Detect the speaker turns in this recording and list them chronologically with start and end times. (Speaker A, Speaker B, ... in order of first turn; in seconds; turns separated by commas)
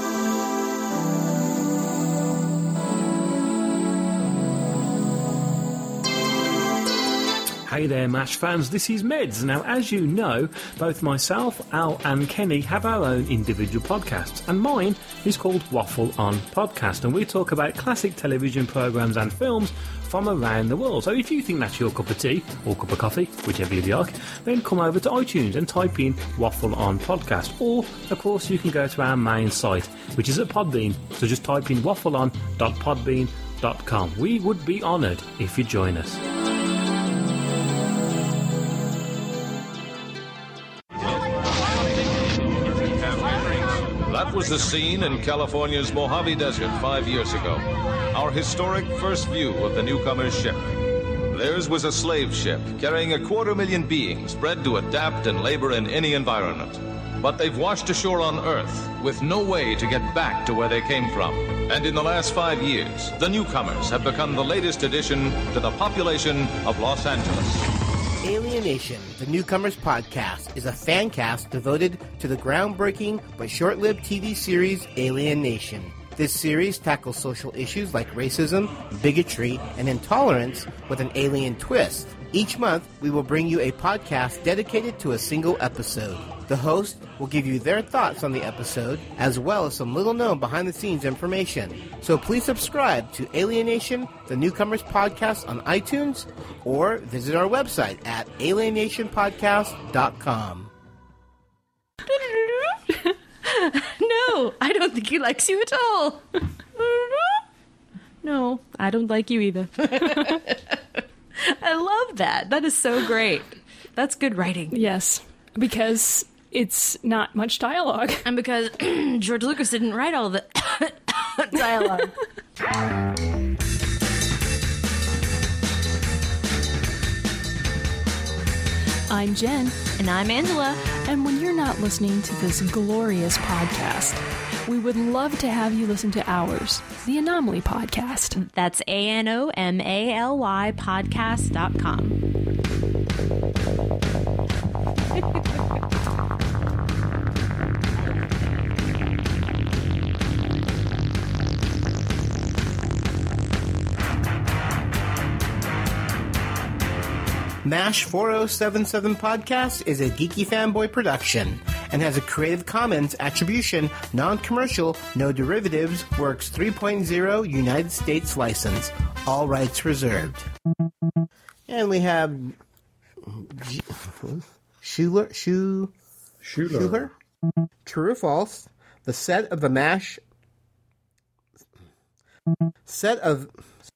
Speaker A: 7.7-36.2, Speaker B: 42.8-50.8, Speaker B: 51.3-67.7, Speaker C: 68.2-100.7, Speaker D: 102.1-102.8, Speaker D: 103.4-107.4, Speaker D: 108.2-110.6, Speaker D: 111.5-114.7, Speaker E: 114.7-118.2, Speaker D: 118.2-122.2, Speaker E: 129.1-129.9, Speaker D: 129.9-130.9, Speaker E: 130.9-138.4, Speaker D: 138.4-142.2, Speaker C: 157.6-170.5, Speaker C: 171.7-172.6, Speaker C: 173.2-175.9, Speaker A: 176.4-177.1, Speaker C: 176.6-177.1, Speaker C: 177.8-180.2, Speaker C: 182.9-183.5